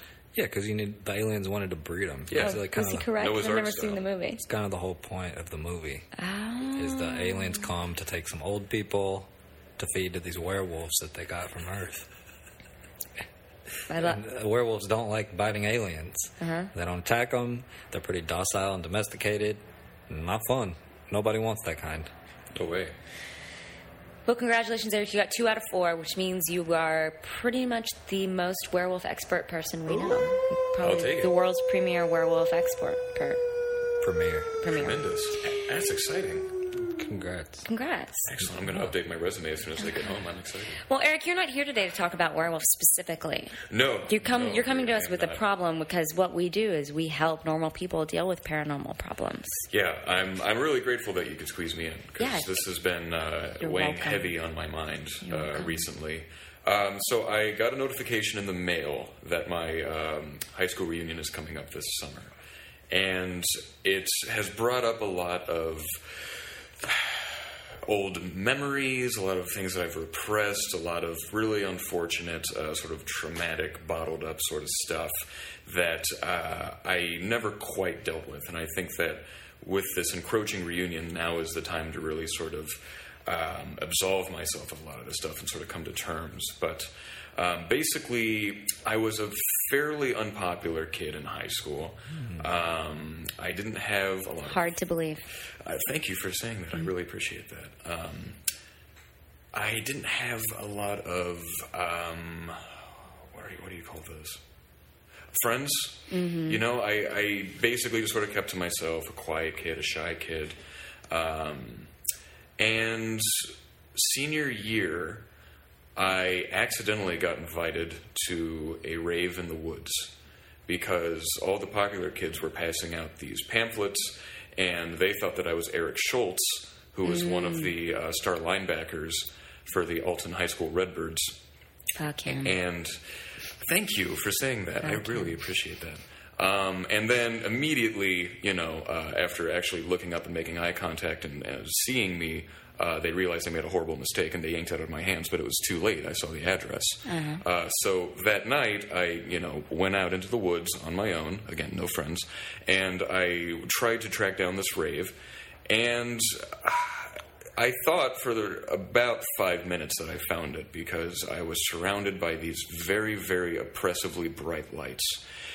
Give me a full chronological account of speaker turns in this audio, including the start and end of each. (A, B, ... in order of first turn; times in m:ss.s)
0:00.3-0:03.1 A
0:02.3-0:04.0 B
0:02.4-0:04.4 C
0:04.4-0:06.0 A
0:06.2-0:07.7 C
0:06.8-0:12.0 A
0:13.9-0:14.2 C
0:13.9-0:22.1 A
0:16.4-0:16.7 C
0:22.5-0:22.9 B
0:24.2-0:33.4 C
0:30.8-0:31.3 B
0:34.0-0:34.5 A
0:34.6-0:35.0 C
0:34.7-0:36.5 B
0:36.8-0:37.7 A
0:37.6-0:38.3 C
0:38.3-0:40.8 B
0:38.5-0:38.9 A
0:40.8-0:49.6 C
0:43.7-0:45.4 B
0:49.7-1:02.3 B
0:52.2-0:52.5 C
0:53.6-0:54.4 C
0:55.2-0:55.8 C
1:02.9-1:34.7 B
1:32.1-1:32.5 A
1:34.5-1:35.2 C
1:35.6-1:38.4 B
1:39.5-1:44.4 B
1:45.3-1:50.6 B
1:46.1-1:46.6 C
1:51.1-1:51.9 B
1:52.6-1:55.2 B
1:56.0-2:00.1 B
2:00.7-2:11.4 B
2:07.0-2:07.7 C
2:12.0-2:12.5 C
2:12.3-2:13.0 B
2:13.6-2:35.2 B
2:14.8-2:15.3 C
2:27.0-2:27.4 C
2:35.7-2:45.2 B